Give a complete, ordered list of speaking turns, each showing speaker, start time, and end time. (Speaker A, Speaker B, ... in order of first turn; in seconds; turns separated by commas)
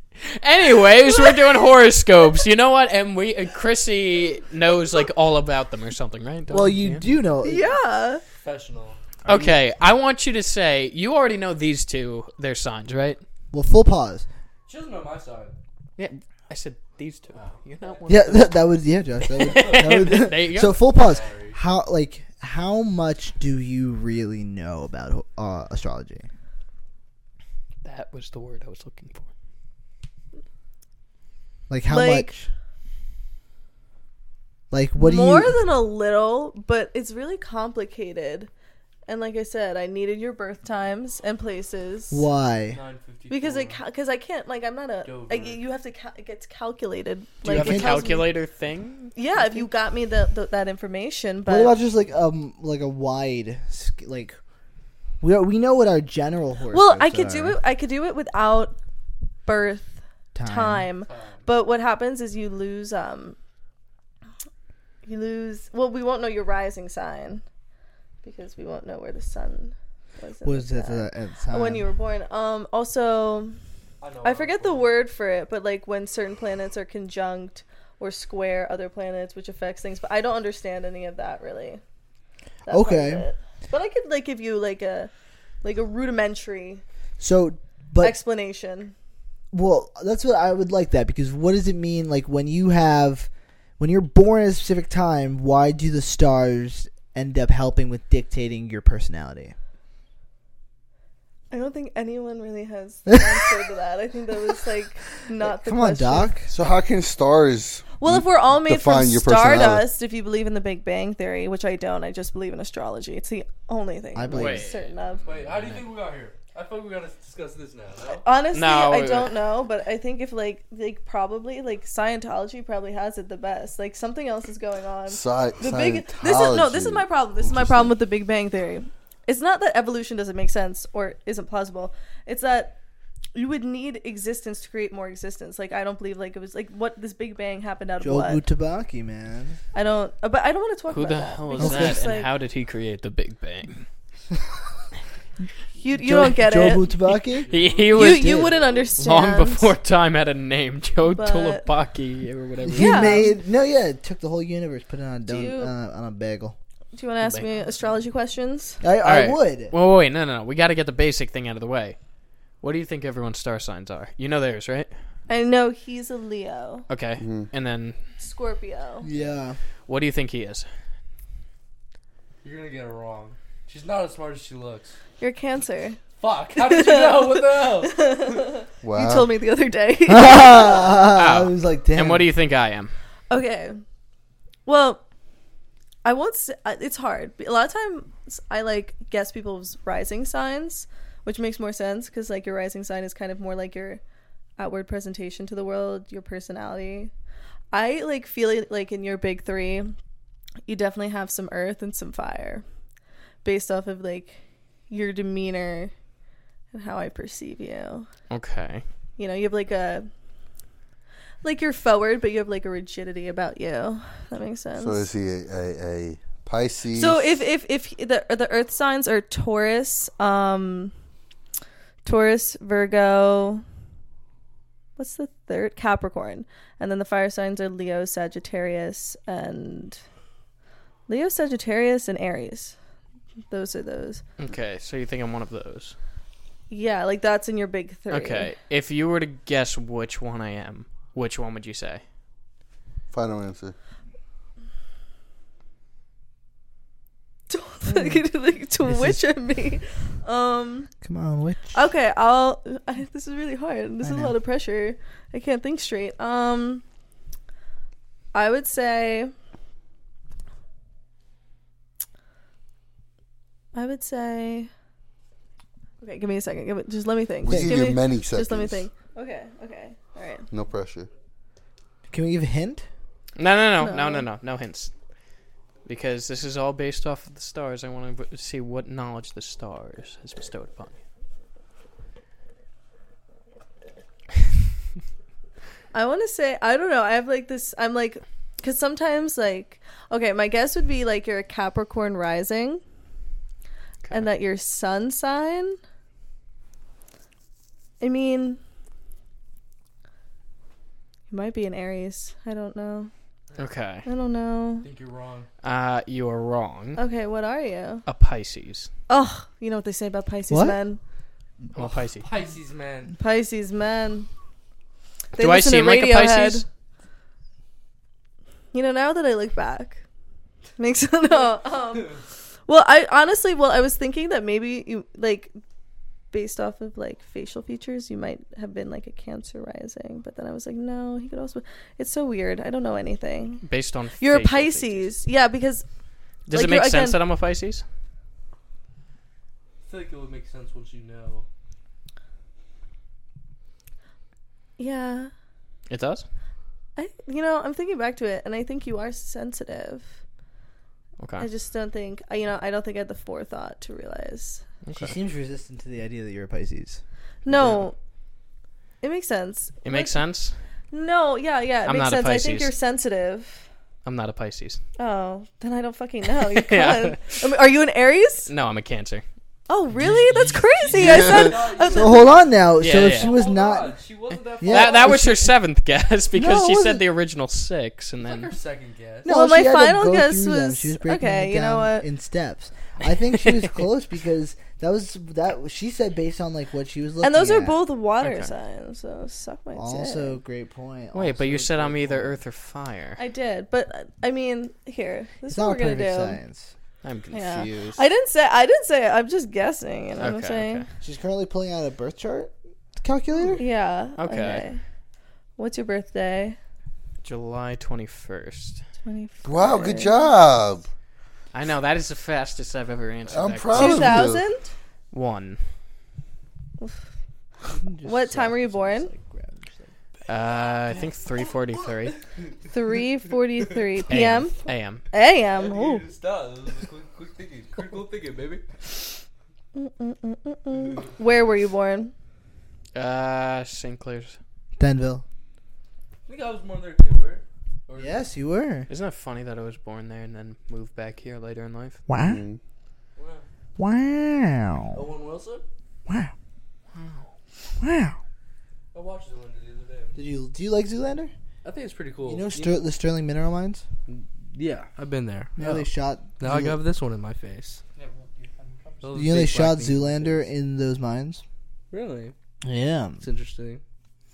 Speaker A: 0.3-7.1, Speaker B: 1.1-1.5, Speaker C: 6.5-7.7, Speaker B: 7.4-8.2, Speaker D: 8.4-9.0, Speaker A: 9.3-13.2, Speaker C: 13.5-14.3, Speaker D: 14.7-15.6, Speaker A: 16.0-18.6, Speaker D: 17.4-18.0, Speaker C: 18.1-26.3, Speaker A: 19.4-20.8, Speaker D: 19.7-20.1, Speaker D: 20.8-21.6, Speaker A: 27.8-29.3, Speaker C: 31.7-32.5, Speaker B: 31.9-32.3, Speaker C: 34.7-35.6, Speaker B: 35.0-38.5, Speaker B: 39.1-42.3, Speaker C: 42.1-42.8, Speaker D: 42.7-43.8, Speaker B: 43.3-48.3, Speaker D: 45.0-45.6, Speaker A: 47.4-49.1, Speaker C: 47.5-48.1, Speaker B: 49.1-51.8, Speaker C: 51.5-54.4, Speaker C: 55.2-57.6, Speaker B: 56.7-58.8, Speaker B: 59.5-63.4, Speaker C: 60.4-60.9, Speaker D: 61.1-61.5, Speaker B: 65.0-67.4, Speaker B: 68.2-73.6, Speaker C: 70.4-71.9, Speaker D: 74.0-74.9, Speaker B: 74.2-81.8, Speaker B: 82.7-85.1, Speaker C: 82.7-83.3, Speaker B: 85.6-86.8, Speaker C: 87.2-88.2, Speaker B: 88.0-88.9, Speaker C: 89.5-99.5, Speaker B: 101.5-106.4, Speaker C: 103.1-103.5, Speaker C: 105.4-106.5, Speaker E: 106.5-109.9, Speaker B: 108.0-115.3, Speaker C: 114.1-114.7, Speaker A: 114.3-115.8, Speaker D: 115.2-118.2, Speaker B: 118.1-132.8, Speaker A: 118.5-119.4, Speaker E: 125.1-127.9, Speaker B: 133.3-138.4, Speaker C: 138.0-139.6, Speaker B: 139.7-142.3, Speaker A: 140.9-143.8, Speaker C: 141.6-142.1, Speaker B: 145.8-146.9, Speaker C: 146.0-148.5, Speaker D: 147.2-148.9, Speaker A: 147.5-153.3, Speaker B: 147.9-149.7, Speaker B: 151.1-151.7, Speaker C: 152.7-156.6, Speaker B: 152.7-153.3, Speaker B: 155.3-155.7, Speaker B: 156.9-158.8, Speaker A: 157.2-157.5, Speaker C: 158.8-159.7, Speaker A: 159.0-162.0, Speaker A: 162.6-164.9, Speaker B: 165.3-166.9, Speaker A: 166.9-168.0, Speaker E: 167.2-167.5, Speaker B: 168.2-169.1, Speaker C: 169.0-169.6, Speaker A: 169.9-170.7, Speaker D: 172.4-174.9, Speaker B: 175.2-176.0, Speaker D: 176.2-178.4, Speaker B: 176.6-180.9, Speaker E: 178.8-179.3, Speaker C: 180.1-182.3, Speaker A: 181.2-182.9, Speaker B: 183.3-183.8, Speaker B: 184.7-185.0, Speaker B: 186.0-194.0, Speaker B: 194.6-197.1, Speaker B: 197.7-199.9, Speaker B: 200.7-202.6, Speaker B: 203.4-204.4, Speaker B: 204.9-205.9, Speaker B: 206.7-208.1, Speaker A: 208.3-208.8, Speaker B: 209.2-210.1, Speaker B: 211.4-215.1, Speaker E: 214.8-217.4, Speaker B: 216.9-220.9, Speaker B: 222.0-223.6, Speaker B: 225.0-230.0, Speaker B: 231.1-232.8, Speaker B: 233.5-234.2, Speaker A: 234.4-235.9, Speaker B: 236.7-238.5, Speaker A: 238.1-242.0, Speaker E: 243.1-243.8, Speaker B: 247.5-250.9, Speaker C: 247.9-248.2, Speaker C: 248.8-249.2, Speaker C: 251.0-251.8, Speaker B: 251.7-256.8, Speaker C: 254.0-254.3, Speaker B: 258.3-259.3, Speaker B: 263.7-264.7, Speaker B: 266.0-270.5, Speaker E: 267.4-268.9, Speaker C: 267.5-267.9, Speaker E: 270.5-271.1, Speaker C: 272.1-272.9, Speaker A: 273.4-274.9, Speaker B: 273.8-274.3, Speaker A: 275.9-281.0, Speaker B: 285.9-292.8, Speaker B: 294.1-295.8, Speaker B: 298.0-298.6, Speaker B: 301.3-303.1, Speaker A: 303.6-304.1, Speaker B: 304.1-304.9, Speaker D: 304.8-305.5, Speaker A: 305.6-307.0, Speaker B: 307.0-308.1, Speaker A: 308.1-308.9, Speaker B: 309.1-311.0, Speaker C: 310.5-310.8, Speaker A: 311.7-312.3, Speaker D: 311.8-313.1, Speaker B: 313.2-314.3, Speaker B: 315.3-316.7, Speaker A: 315.4-316.6, Speaker B: 318.7-320.0, Speaker B: 320.8-325.5, Speaker B: 326.3-333.6, Speaker A: 333.6-335.1, Speaker B: 334.2-335.9, Speaker A: 336.5-337.8, Speaker B: 336.5-337.2, Speaker D: 339.9-341.5, Speaker B: 344.8-345.3, Speaker A: 345.9-346.2, Speaker B: 347.0-350.1, Speaker A: 351.2-351.5, Speaker B: 351.4-354.6, Speaker A: 354.8-355.2, Speaker C: 354.9-357.0, Speaker B: 357.4-357.9, Speaker A: 357.5-357.8, Speaker B: 359.0-360.2, Speaker A: 359.8-360.6, Speaker B: 360.9-363.6, Speaker A: 361.9-362.7, Speaker A: 364.0-364.8, Speaker B: 365.0-368.5, Speaker A: 366.4-367.4, Speaker A: 368.5-369.2, Speaker B: 369.7-372.4, Speaker D: 370.3-375.3, Speaker E: 370.9-371.6, Speaker C: 371.9-374.0, Speaker A: 372.8-373.4, Speaker C: 374.6-375.5, Speaker A: 374.6-378.5, Speaker C: 376.4-377.1, Speaker D: 378.2-379.3, Speaker B: 379.2-382.1, Speaker C: 379.2-387.8, Speaker B: 387.2-390.4, Speaker A: 388.2-388.5, Speaker C: 389.7-392.4, Speaker A: 391.1-393.2, Speaker B: 393.2-396.4, Speaker C: 395.5-396.7, Speaker A: 397.0-398.0, Speaker B: 397.3-400.8, Speaker A: 400.2-400.9, Speaker C: 401.0-403.6, Speaker B: 403.5-404.8, Speaker A: 404.2-404.7, Speaker B: 405.6-406.6, Speaker A: 407.2-408.8, Speaker B: 409.0-410.3, Speaker E: 409.4-410.9, Speaker A: 411.5-414.2, Speaker E: 413.3-414.4, Speaker B: 413.7-414.7, Speaker A: 415.1-415.6, Speaker C: 417.7-419.9, Speaker B: 418.0-419.1, Speaker A: 420.3-422.2, Speaker B: 422.7-426.1, Speaker A: 424.1-425.0, Speaker D: 425.5-428.6, Speaker B: 429.7-432.1, Speaker A: 432.9-434.4, Speaker C: 434.8-435.2, Speaker D: 436.3-438.2, Speaker C: 438.0-438.9, Speaker A: 438.9-442.0, Speaker C: 442.1-442.4, Speaker E: 442.2-442.6, Speaker D: 443.2-443.4, Speaker C: 443.8-445.0, Speaker D: 444.9-445.6, Speaker C: 446.1-446.3, Speaker A: 446.9-447.3, Speaker C: 447.8-448.2, Speaker D: 448.9-450.2, Speaker C: 450.1-451.3, Speaker D: 451.6-452.9, Speaker C: 452.2-453.8, Speaker D: 454.1-457.8, Speaker C: 455.6-456.8, Speaker A: 458.0-459.3, Speaker D: 459.0-460.4, Speaker C: 459.1-461.4, Speaker D: 461.9-462.3, Speaker C: 462.6-463.2, Speaker D: 463.2-463.8